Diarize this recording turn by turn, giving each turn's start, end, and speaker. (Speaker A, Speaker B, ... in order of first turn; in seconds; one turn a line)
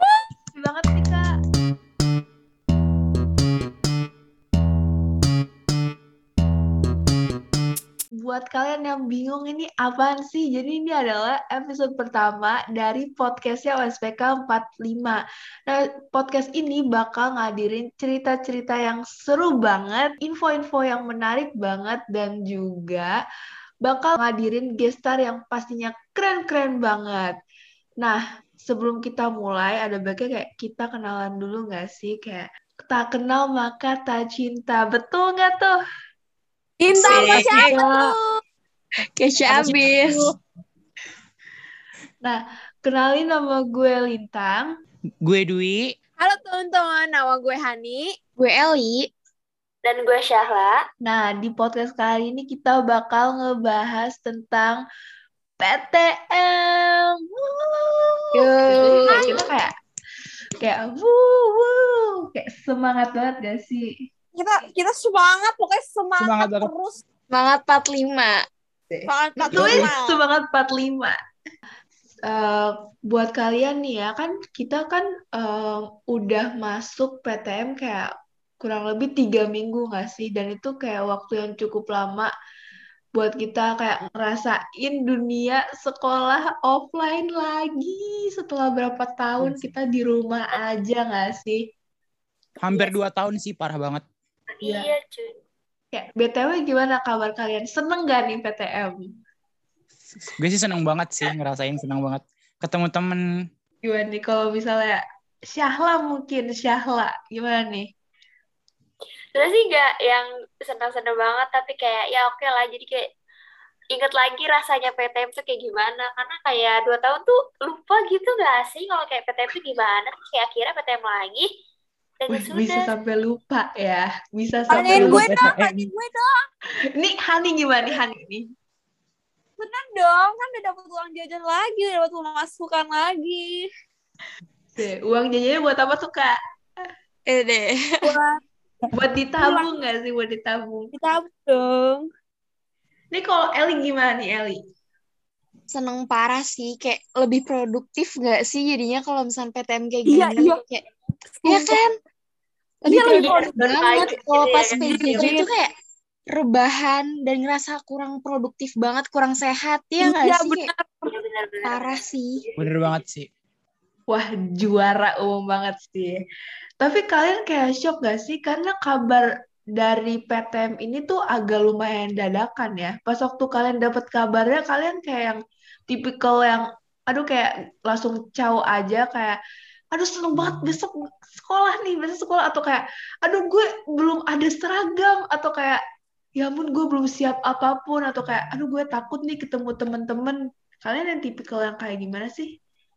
Speaker A: 0.5-1.3
Speaker A: 8.2-23.1
Speaker A: 23.8-27.4
Speaker A: 28.0-35.7
Speaker B: 36.8-38.2
Speaker C: 36.9-38.1
Speaker D: 37.3-37.7
Speaker C: 39.1-40.2
Speaker D: 39.5-40.2
Speaker A: 39.5-40.0
Speaker A: 42.2-44.7
Speaker D: 45.2-45.9
Speaker B: 46.2-48.2
Speaker C: 48.4-49.1
Speaker E: 49.8-50.8
Speaker A: 51.0-54.8
Speaker A: 55.6-59.7
Speaker C: 58.3-59.4
Speaker B: 59.1-59.4
Speaker A: 60.6-64.0
Speaker B: 64.3-67.0
Speaker D: 66.2-66.7
Speaker C: 67.3-68.4
Speaker A: 68.9-71.2
Speaker B: 69.1-70.2
Speaker D: 69.5-69.9
Speaker A: 72.2-82.3
Speaker A: 83.1-91.6
Speaker D: 89.4-89.7
Speaker D: 92.6-94.0
Speaker E: 94.6-95.3
Speaker A: 94.6-94.9
Speaker A: 95.9-99.0
Speaker D: 100.3-103.2
Speaker A: 103.8-107.9
Speaker E: 109.3-113.1
Speaker E: 113.9-121.5
Speaker E: 122.2-122.9
Speaker A: 122.3-125.5
Speaker D: 124.7-125.9
Speaker B: 124.7-126.4
Speaker A: 126.9-128.4
Speaker B: 129.6-133.7
Speaker A: 134.8-136.4
Speaker C: 137.2-138.1
Speaker B: 138.0-138.4
Speaker A: 138.9-140.9
Speaker B: 139.4-139.7
Speaker B: 140.9-142.1
Speaker A: 143.1-144.6
Speaker C: 145.7-150.8
Speaker B: 150.1-150.6
Speaker B: 151.3-151.8
Speaker C: 151.5-151.9
Speaker C: 152.8-155.7
Speaker B: 152.8-153.7
Speaker E: 153.0-155.4
Speaker B: 154.9-155.5
Speaker C: 156.3-160.7
Speaker B: 160.0-161.1
Speaker E: 161.1-162.5
Speaker C: 161.6-162.4
Speaker D: 162.6-163.3
Speaker A: 164.1-166.2
Speaker A: 166.8-179.4
Speaker A: 179.9-185.8
Speaker A: 186.4-192.5